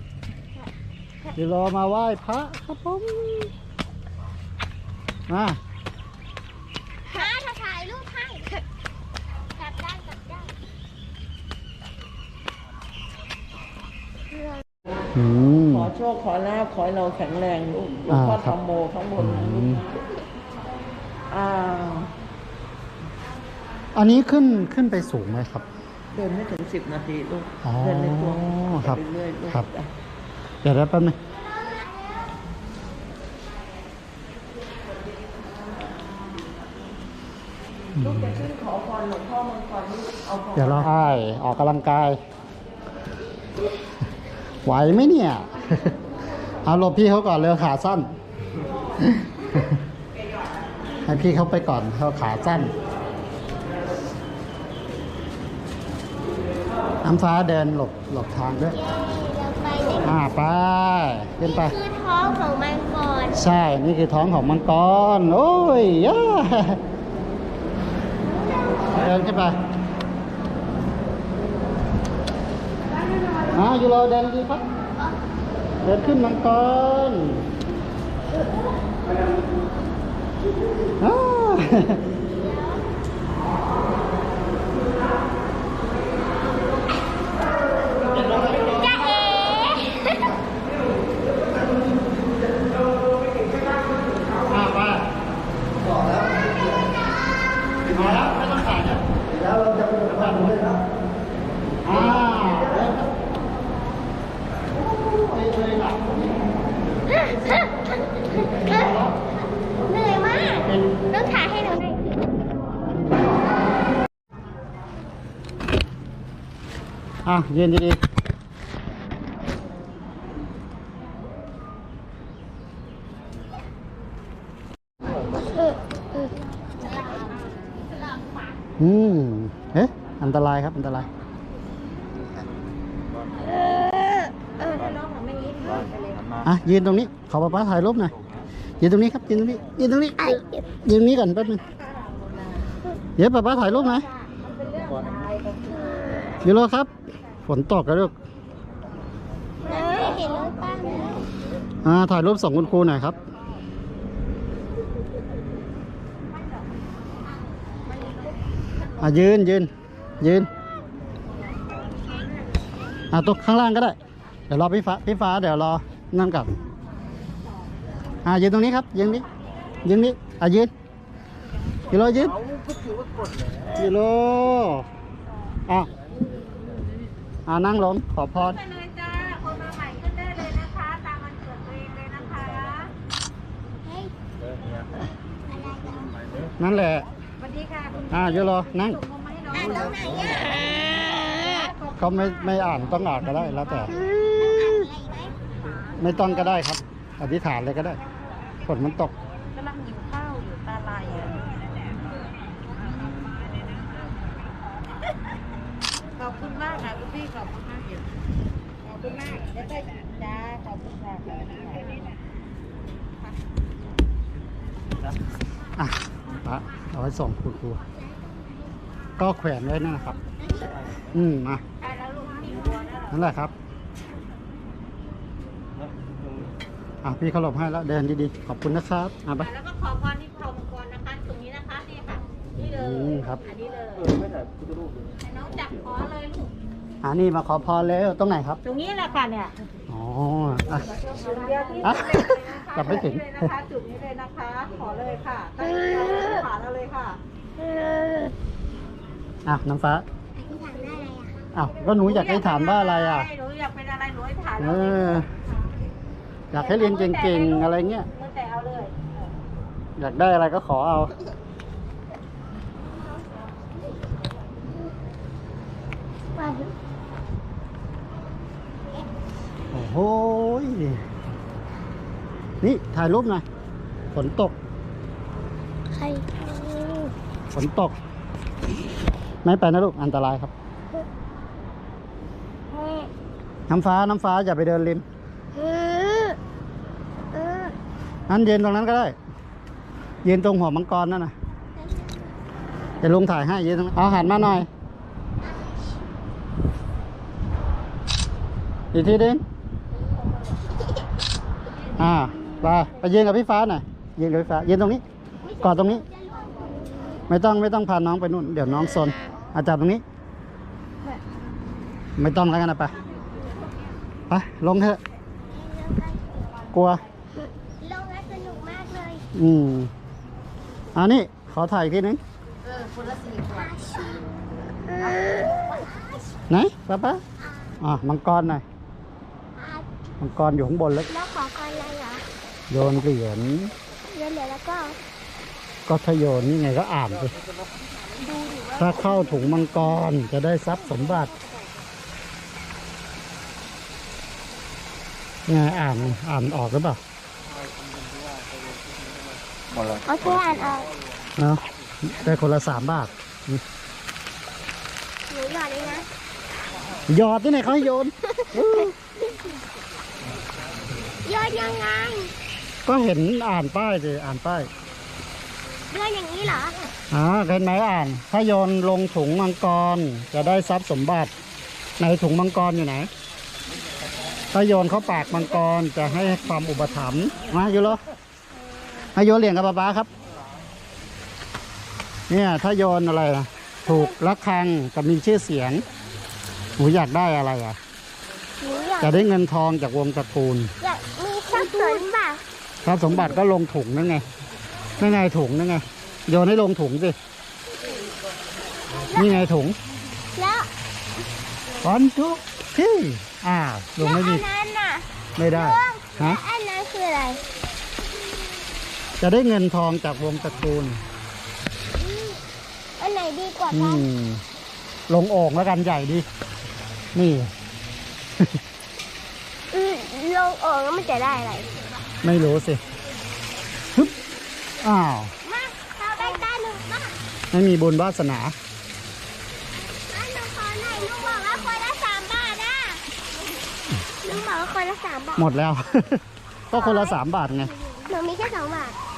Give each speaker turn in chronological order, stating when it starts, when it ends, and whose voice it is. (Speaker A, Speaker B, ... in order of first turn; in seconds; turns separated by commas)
Speaker A: 1.3-3.5, Speaker A: 5.3-5.6, Speaker B: 7.0-8.6, Speaker B: 9.6-10.5, Speaker A: 15.1-15.9, Speaker C: 15.7-19.9, Speaker A: 18.1-18.6, Speaker A: 19.2-19.8, Speaker C: 21.3-22.1, Speaker A: 23.9-25.6, Speaker C: 26.1-29.9, Speaker A: 27.6-29.7, Speaker A: 30.6-31.2, Speaker C: 37.9-40.9, Speaker A: 38.0-38.4, Speaker A: 40.5-42.2, Speaker A: 44.6-46.0, Speaker A: 46.6-48.1, Speaker A: 49.0-49.8, Speaker A: 51.0-52.7, Speaker A: 57.0-58.8, Speaker B: 58.7-60.1, Speaker A: 60.0-61.8, Speaker B: 61.4-63.4, Speaker A: 63.3-66.8, Speaker B: 68.5-68.9, Speaker A: 68.9-69.5, Speaker A: 73.5-74.6, Speaker A: 75.8-77.5, Speaker A: 81.0-82.0, Speaker B: 82.4-82.7, Speaker A: 88.2-88.8, Speaker B: 88.5-90.1, Speaker A: 94.5-95.0, Speaker A: 97.9-100.7, Speaker A: 101.8-103.0, Speaker A: 104.8-106.4, Speaker B: 107.1-107.6, Speaker A: 108.4-109.2, Speaker B: 108.6-108.9, Speaker B: 109.9-112.2, Speaker A: 110.6-111.0, Speaker A: 117.2-118.0, Speaker A: 128.8-131.1, Speaker D: 134.9-136.2, Speaker A: 136.4-138.1, Speaker A: 138.8-141.6, Speaker B: 140.2-140.6, Speaker A: 143.2-144.1, Speaker D: 144.4-145.4, Speaker A: 146.4-146.9, Speaker A: 147.4-148.1, Speaker B: 149.6-151.2, Speaker A: 151.8-153.1, Speaker A: 159.0-160.5, Speaker A: 163.1-164.0, Speaker A: 164.5-166.5, Speaker A: 168.2-169.2, Speaker A: 169.8-170.7, Speaker A: 171.9-172.4, Speaker A: 173.7-174.9, Speaker A: 177.4-178.6, Speaker D: 178.4-182.9, Speaker B: 183.8-184.1, Speaker B: 185.4-186.2, Speaker A: 186.6-187.1, Speaker D: 187.4-188.2, Speaker A: 188.1-189.0, Speaker D: 189.0-189.7, Speaker B: 189.5-191.6, Speaker D: 191.6-191.9, Speaker A: 191.9-194.0, Speaker B: 194.0-195.3, Speaker A: 196.0-198.0, Speaker A: 198.6-199.1, Speaker D: 199.6-201.4, Speaker D: 206.2-208.0, Speaker D: 208.9-211.9, Speaker A: 215.8-217.8, Speaker A: 219.2-220.2, Speaker A: 221.1-221.6, Speaker D: 221.8-223.1, Speaker A: 223.1-223.5, Speaker A: 227.0-229.5, Speaker D: 229.4-234.2, Speaker A: 232.5-233.4, Speaker D: 235.2-236.5, Speaker A: 237.0-238.6, Speaker D: 238.6-239.5, Speaker A: 239.9-240.9, Speaker D: 241.1-247.2, Speaker A: 241.8-243.5, Speaker A: 249.4-250.0, Speaker B: 250.3-251.4, Speaker A: 251.5-253.3, Speaker D: 252.1-255.1, Speaker A: 254.6-255.3, Speaker A: 256.5-258.1, Speaker D: 256.6-258.9, Speaker A: 260.0-261.1, Speaker B: 266.4-266.7, Speaker A: 269.7-271.0, Speaker A: 272.6-273.4, Speaker A: 274.1-274.6, Speaker B: 275.9-277.1, Speaker A: 277.5-278.0, Speaker A: 279.4-280.5, Speaker B: 282.7-283.1, Speaker A: 283.7-285.0, Speaker B: 285.6-286.4, Speaker B: 287.4-287.7, Speaker A: 288.3-289.2, Speaker A: 290.2-291.3, Speaker A: 293.0-294.7, Speaker A: 298.9-299.4, Speaker A: 301.9-305.0, Speaker B: 305.4-307.2, Speaker A: 305.6-306.1, Speaker A: 307.3-310.0, Speaker A: 312.2-312.9, Speaker A: 314.3-315.0, Speaker B: 315.4-316.3, Speaker A: 316.7-317.0, Speaker B: 317.8-319.2, Speaker A: 319.4-319.9, Speaker A: 321.0-322.2, Speaker B: 323.3-326.1, Speaker A: 326.5-327.2, Speaker A: 327.8-328.6, Speaker B: 329.6-329.9, Speaker A: 330.2-331.1, Speaker B: 331.1-332.2, Speaker A: 332.7-333.7, Speaker B: 334.1-335.0, Speaker A: 335.9-337.3, Speaker A: 338.7-341.3, Speaker A: 345.5-347.0, Speaker B: 349.9-350.9, Speaker A: 351.4-353.6, Speaker B: 355.3-356.1, Speaker A: 357.1-358.9, Speaker B: 358.4-358.9, Speaker B: 361.2-362.3, Speaker A: 362.9-364.7, Speaker B: 365.9-366.8, Speaker A: 367.1-371.3, Speaker A: 372.0-373.1, Speaker A: 374.5-378.0, Speaker A: 379.1-380.1, Speaker A: 382.3-385.8, Speaker B: 383.9-384.1, Speaker A: 386.8-387.8, Speaker B: 388.6-389.2, Speaker A: 389.0-390.7, Speaker B: 390.8-392.4, Speaker A: 392.8-394.2, Speaker A: 395.0-397.2, Speaker B: 398.9-399.5, Speaker A: 399.1-399.8, Speaker B: 400.4-400.7, Speaker A: 401.8-404.4, Speaker B: 404.0-407.4, Speaker A: 405.4-406.4, Speaker A: 409.2-411.0, Speaker B: 412.0-412.4, Speaker B: 413.0-414.1, Speaker A: 413.7-414.4, Speaker A: 415.1-416.2, Speaker A: 417.1-417.5, Speaker B: 419.7-421.7, Speaker A: 422.2-422.8, Speaker A: 424.8-425.3, Speaker B: 425.4-427.2, Speaker A: 427.5-428.5, Speaker B: 430.1-433.0, Speaker B: 434.2-435.5, Speaker A: 435.4-437.7, Speaker B: 436.7-437.2, Speaker B: 437.9-439.0